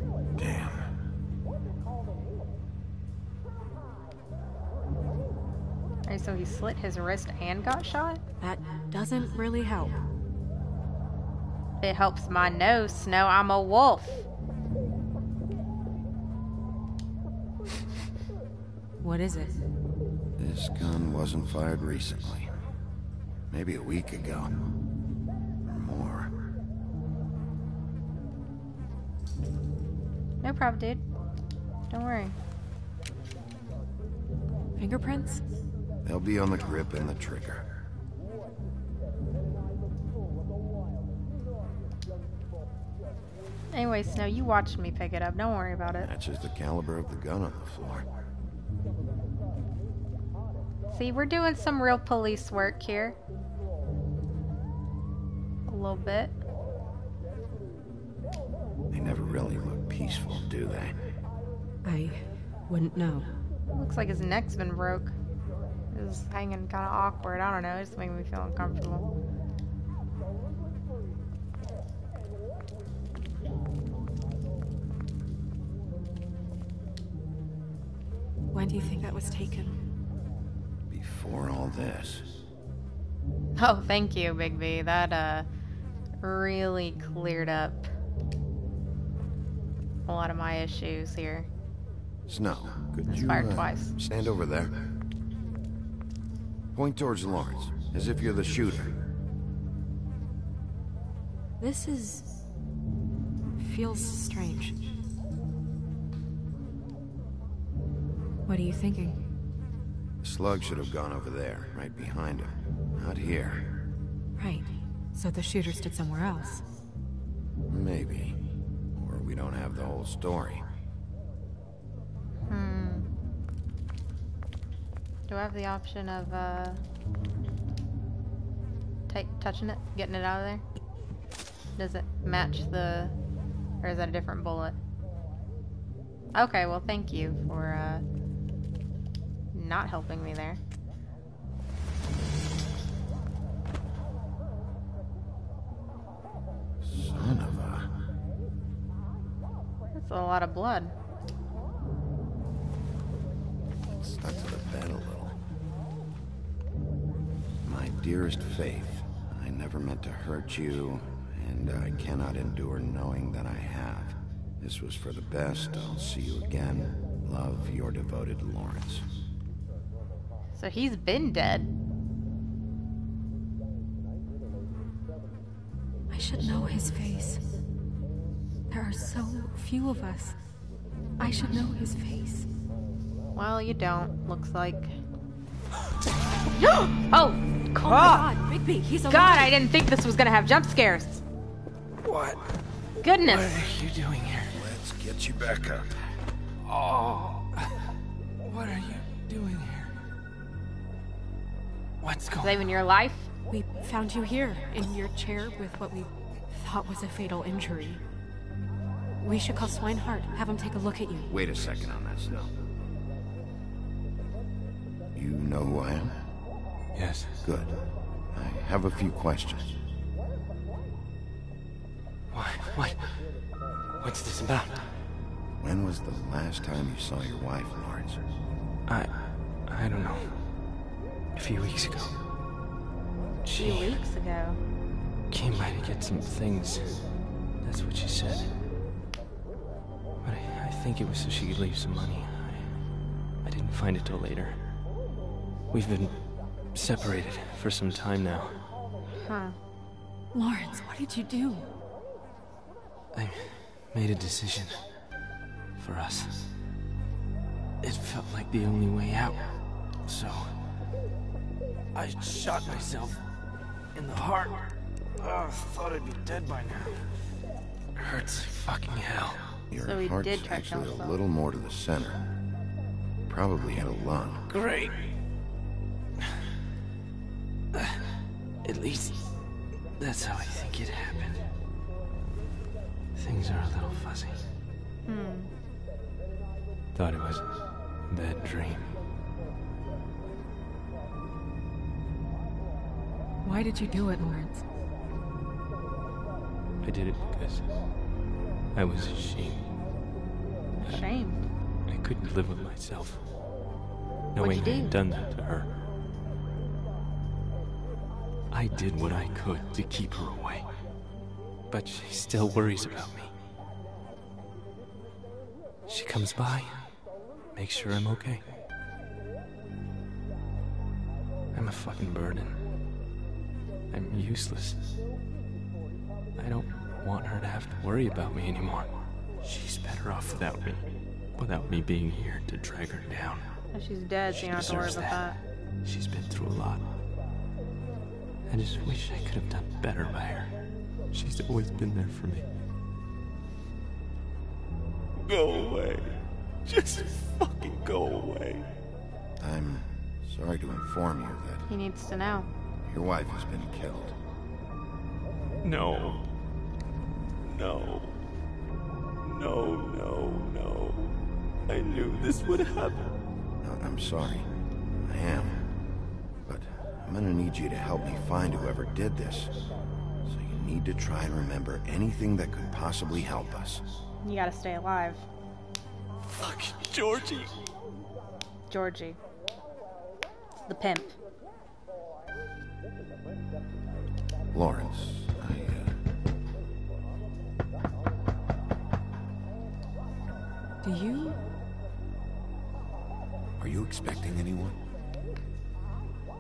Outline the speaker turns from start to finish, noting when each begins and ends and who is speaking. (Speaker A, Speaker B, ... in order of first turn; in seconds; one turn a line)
Speaker A: 0.4-0.9
Speaker B: 6.1-8.2
Speaker C: 8.4-10.0
Speaker B: 11.8-14.3
Speaker C: 19.0-19.6
Speaker A: 20.4-22.5
Speaker A: 23.5-24.6
Speaker A: 25.6-26.3
Speaker B: 30.4-31.0
Speaker B: 31.9-32.3
Speaker C: 34.8-35.4
Speaker A: 36.0-37.6
Speaker B: 43.7-46.1
Speaker A: 45.9-48.1
Speaker B: 50.9-53.2
Speaker B: 55.7-56.4
Speaker A: 58.9-61.0
Speaker C: 61.8-63.3
Speaker B: 63.7-65.1
Speaker B: 65.9-69.1
Speaker C: 78.5-79.8
Speaker A: 80.9-82.3
Speaker B: 83.6-85.5
Speaker B: 86.2-87.9
Speaker B: 90.1-91.5
Speaker A: 92.3-94.7
Speaker B: 93.1-93.9
Speaker A: 96.7-99.0
Speaker C: 101.6-102.3
Speaker C: 103.6-104.8
Speaker C: 108.5-109.2
Speaker A: 110.2-113.7
Speaker C: 114.4-116.6
Speaker A: 117.7-118.4
Speaker A: 119.0-120.6
Speaker B: 122.5-123.1
Speaker B: 125.3-126.8
Speaker B: 129.1-130.6
Speaker B: 131.8-133.2
Speaker B: 133.8-134.8
Speaker B: 136.3-138.0
Speaker B: 139.5-140.6
Speaker A: 146.8-147.9
Speaker B: 149.9-150.9
Speaker A: 153.9-155.4
Speaker A: 157.7-169.1
Speaker B: 170.6-171.7
Speaker C: 176.1-177.4
Speaker C: 178.7-180.4
Speaker C: 181.2-182.5
Speaker B: 183.3-184.9
Speaker B: 187.1-188.3
Speaker C: 187.8-189.6
Speaker B: 189.1-191.2
Speaker D: 192.1-192.4
Speaker B: 193.0-193.7
Speaker D: 193.2-194.5
Speaker A: 194.5-195.8
Speaker D: 198.4-199.9
Speaker D: 202.0-202.6
Speaker B: 202.4-203.3
Speaker C: 203.5-208.0
Speaker C: 209.2-211.3
Speaker A: 211.3-212.5
Speaker A: 215.2-216.2
Speaker D: 216.9-217.4
Speaker A: 217.4-217.8
Speaker A: 218.3-219.7
Speaker D: 222.3-223.3
Speaker D: 224.0-225.0
Speaker A: 225.6-228.2
Speaker D: 228.9-230.3
Speaker D: 231.4-232.2
Speaker D: 233.4-234.0
Speaker B: 233.6-234.6
Speaker D: 235.3-238.6
Speaker D: 240.2-242.9
Speaker D: 243.4-244.7
Speaker D: 245.7-248.7
Speaker B: 249.2-249.6
Speaker C: 250.3-251.7
Speaker D: 253.1-254.9
Speaker D: 255.8-256.5
Speaker D: 257.8-259.4
Speaker D: 260.0-260.6
Speaker D: 261.9-263.2
Speaker D: 263.9-267.0
Speaker D: 268.0-269.4
Speaker A: 269.7-272.2
Speaker B: 269.8-271.2
Speaker A: 273.3-274.4
Speaker D: 274.5-275.1
Speaker D: 278.6-279.3
Speaker D: 280.0-281.5
Speaker D: 283.1-284.5
Speaker B: 285.1-285.5
Speaker D: 286.9-289.0
Speaker C: 293.4-294.7
Speaker D: 296.8-297.8
Speaker D: 298.7-299.7
Speaker B: 300.8-301.4
Speaker D: 301.9-303.3
Speaker D: 304.4-305.8
Speaker B: 304.4-304.9
Speaker D: 308.5-310.7
Speaker D: 311.7-313.3
Speaker D: 315.9-317.0
Speaker D: 317.5-318.4
Speaker D: 321.5-322.6
Speaker D: 323.9-324.8
Speaker D: 326.4-333.5
Speaker B: 333.7-335.4
Speaker D: 334.3-335.2
Speaker D: 335.8-336.9
Speaker D: 338.5-340.5
Speaker D: 341.1-342.5
Speaker D: 345.2-346.1
Speaker D: 346.7-348.6
Speaker A: 349.4-351.7
Speaker B: 351.7-352.5
Speaker A: 352.9-354.2
Speaker D: 355.6-356.2
Speaker D: 357.5-358.1
Speaker D: 359.3-361.0
Speaker D: 361.7-363.1
Speaker A: 363.6-364.5
Speaker A: 365.1-365.6
Speaker A: 366.5-369.5
Speaker A: 370.2-373.8
Speaker B: 374.2-375.3
Speaker D: 376.4-377.5
Speaker B: 378.7-379.2
Speaker B: 380.7-381.2
Speaker A: 384.5-386.0
Speaker C: 390.8-391.4
Speaker A: 393.6-394.8